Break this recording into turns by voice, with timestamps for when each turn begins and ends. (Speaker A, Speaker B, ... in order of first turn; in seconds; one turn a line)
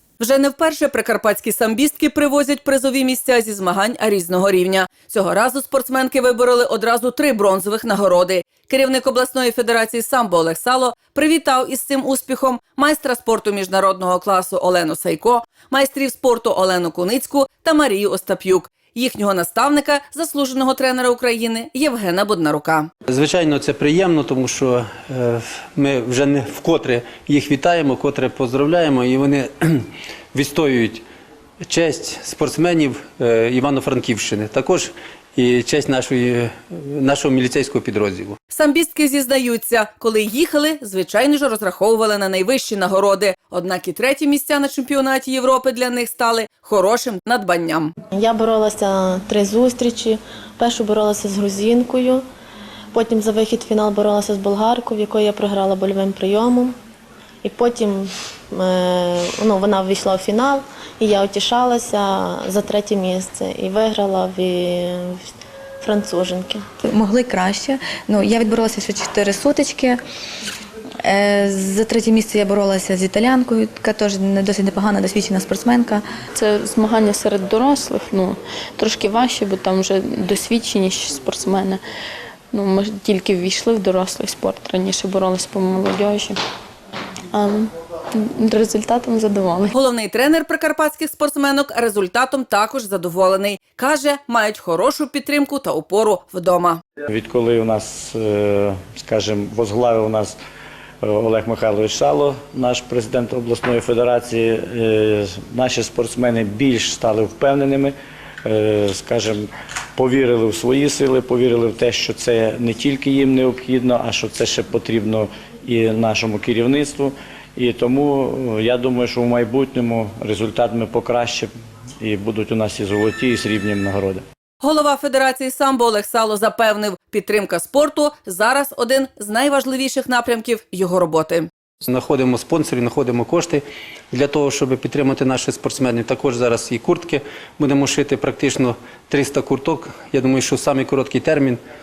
Speaker A: 0.2-22.9
Speaker B: 23.1-29.8
Speaker B: 30.3-31.0
Speaker B: 31.6-38.4
Speaker A: 38.5-47.9
Speaker C: 48.1-52.2
Speaker C: 52.9-56.7
Speaker C: 57.4-65.2
Speaker C: 65.8-66.6
Speaker D: 66.8-70.0
Speaker D: 71.0-76.1
Speaker E: 76.3-81.8
Speaker E: 82.5-86.4
Speaker E: 87.3-89.7
Speaker A: 89.7-96.8
Speaker F: 97.1-100.4
Speaker F: 101.0-121.5
Speaker F: 122.0-124.2
Speaker A: 124.6-131.5
Speaker B: 131.8-141.6